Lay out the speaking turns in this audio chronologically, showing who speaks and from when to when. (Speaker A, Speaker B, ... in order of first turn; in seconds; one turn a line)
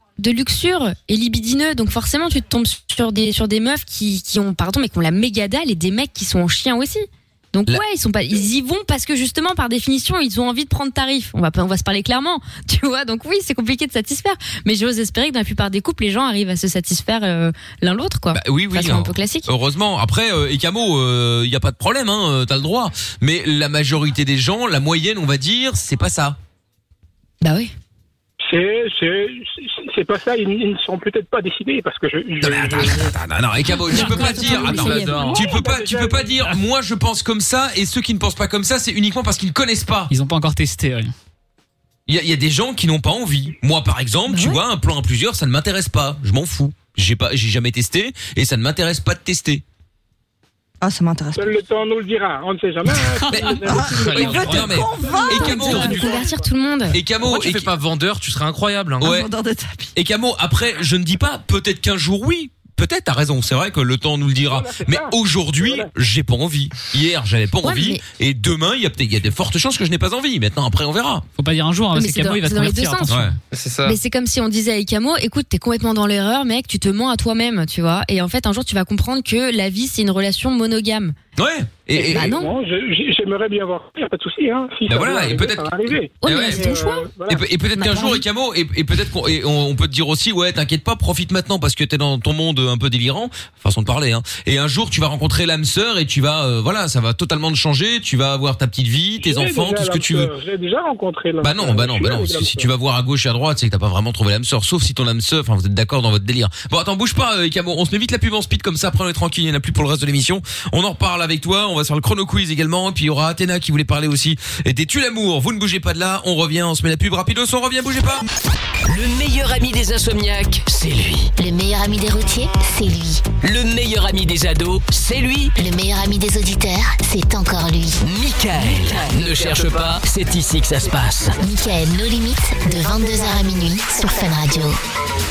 Speaker A: 0.2-19.5
Speaker B: 18.3-26.4
Speaker A: 27.4-27.7
Speaker C: 28.4-33.1
Speaker B: 32.4-40.1
Speaker A: 33.9-35.5
Speaker C: 34.5-36.5
Speaker D: 34.5-35.4
Speaker E: 40.1-41.1
Speaker B: 42.1-49.6
Speaker A: 44.3-44.6
Speaker F: 50.8-51.6
Speaker C: 51.4-56.5
Speaker E: 53.1-53.5
Speaker B: 53.3-56.1
Speaker F: 53.6-56.3
Speaker D: 53.9-54.9
Speaker A: 55.1-57.0
Speaker B: 56.9-57.7
Speaker D: 57.2-59.1
Speaker B: 59.0-59.3
Speaker F: 59.0-59.9
Speaker B: 59.9-71.2
Speaker C: 64.5-65.9
Speaker A: 67.6-68.0
Speaker E: 71.4-73.4
Speaker A: 71.9-73.2
Speaker B: 73.1-73.4
Speaker D: 73.5-74.0
Speaker A: 73.8-81.2
Speaker B: 81.4-82.3
Speaker C: 82.0-87.5
Speaker A: 82.0-82.5
Speaker B: 84.9-86.7
Speaker A: 86.2-87.1
Speaker B: 87.3-100.3
Speaker A: 87.8-88.2
Speaker C: 99.2-102.7
Speaker B: 101.4-118.2
Speaker G: 118.9-121.3
Speaker H: 121.4-123.2
Speaker G: 123.4-125.5
Speaker H: 125.6-128.0
Speaker G: 128.0-131.4
Speaker H: 131.4-134.8